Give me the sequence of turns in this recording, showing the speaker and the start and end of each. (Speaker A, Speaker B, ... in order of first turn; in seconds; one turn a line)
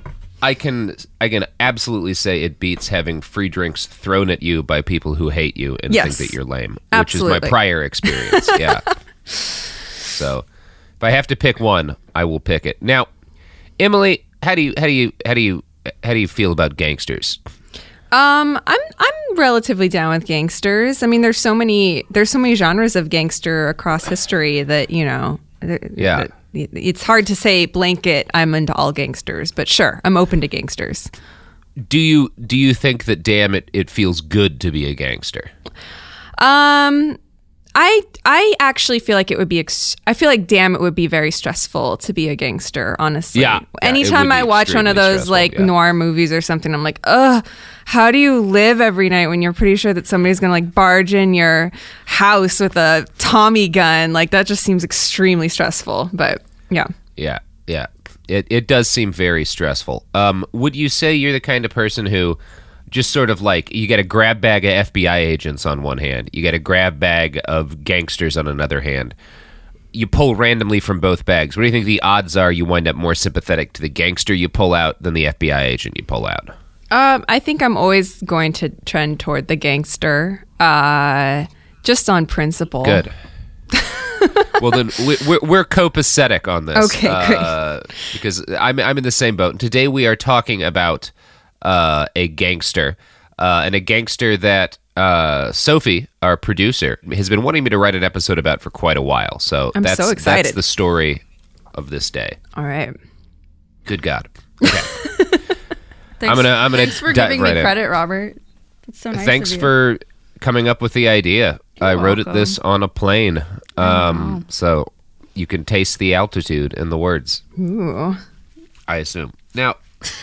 Speaker A: 0.4-8.8
Speaker B: 5.9-6.3
Speaker B: 6.9-8.6
Speaker A: 10.1-10.4
Speaker A: 11.0-13.1
Speaker A: 13.8-17.4
Speaker B: 18.1-31.1
Speaker A: 26.0-26.3
Speaker A: 31.9-35.5
Speaker B: 36.4-37.2
Speaker B: 37.7-56.9
Speaker A: 43.4-45.7
Speaker A: 57.2-62.4
Speaker A: 62.9-69.2
Speaker A: 69.9-76.5
Speaker B: 76.9-83.0
Speaker A: 82.8-83.1
Speaker B: 83.8-84.3
Speaker A: 84.6-91.1
Speaker B: 86.7-87.5
Speaker A: 91.6-101.2
Speaker B: 99.8-100.6
Speaker A: 101.7-102.4
Speaker B: 102.5-102.9
Speaker A: 103.8-104.9
Speaker B: 104.7-105.4
Speaker C: 106.2-109.7
Speaker A: 106.2-107.9
Speaker A: 109.1-117.4
Speaker B: 111.9-112.5
Speaker C: 113.8-114.4
Speaker B: 117.6-118.2
Speaker A: 118.9-119.8